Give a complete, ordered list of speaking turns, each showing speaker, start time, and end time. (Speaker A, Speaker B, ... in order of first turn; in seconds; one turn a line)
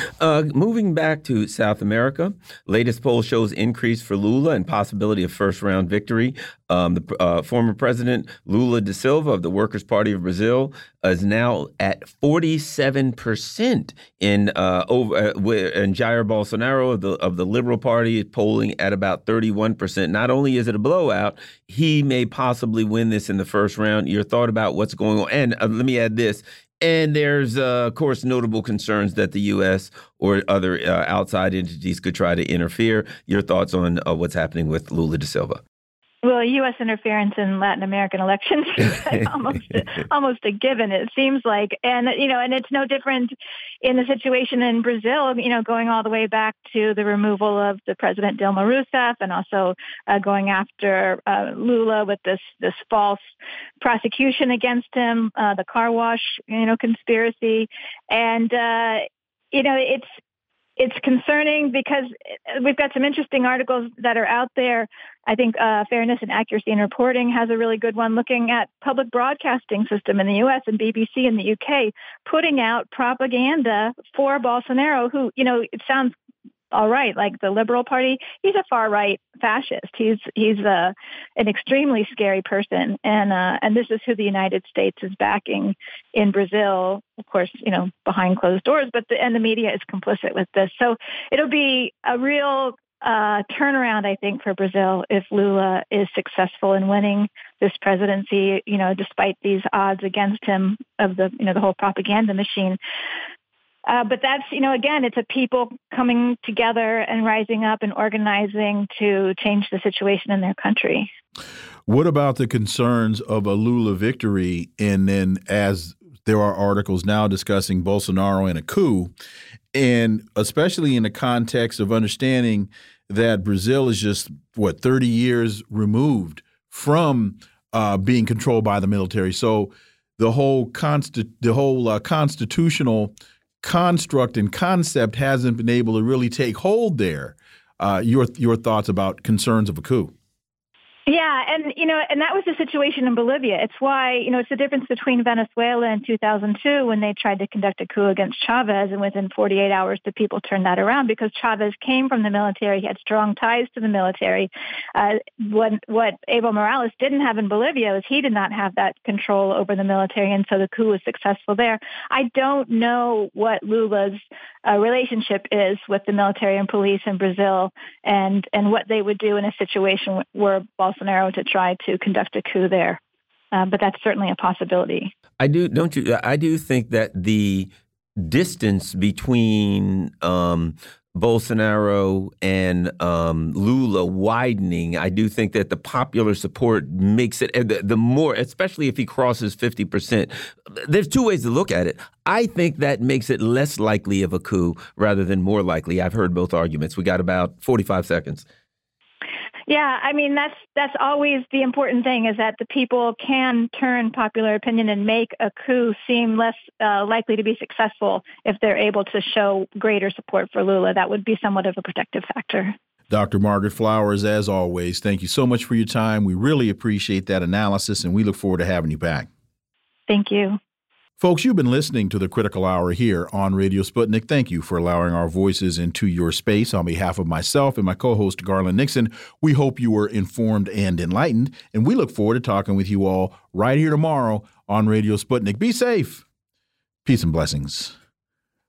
Speaker A: 0.2-35.6
Speaker B: 36.2-53.2
Speaker B: 53.8-60.1
Speaker B: 60.8-76.1
Speaker B: 76.7-102.8
Speaker B: 103.9-111.1
Speaker C: 111.9-119.1
Speaker C: 119.7-140.1
Speaker B: 141.1-173.0
Speaker B: 173.5-175.1
Speaker A: 175.4-198.4
Speaker B: 199.7-212.8
Speaker C: 213.1-219.3
Speaker B: 220.1-220.6
Speaker C: 221.2-236.2
Speaker C: 237.0-237.9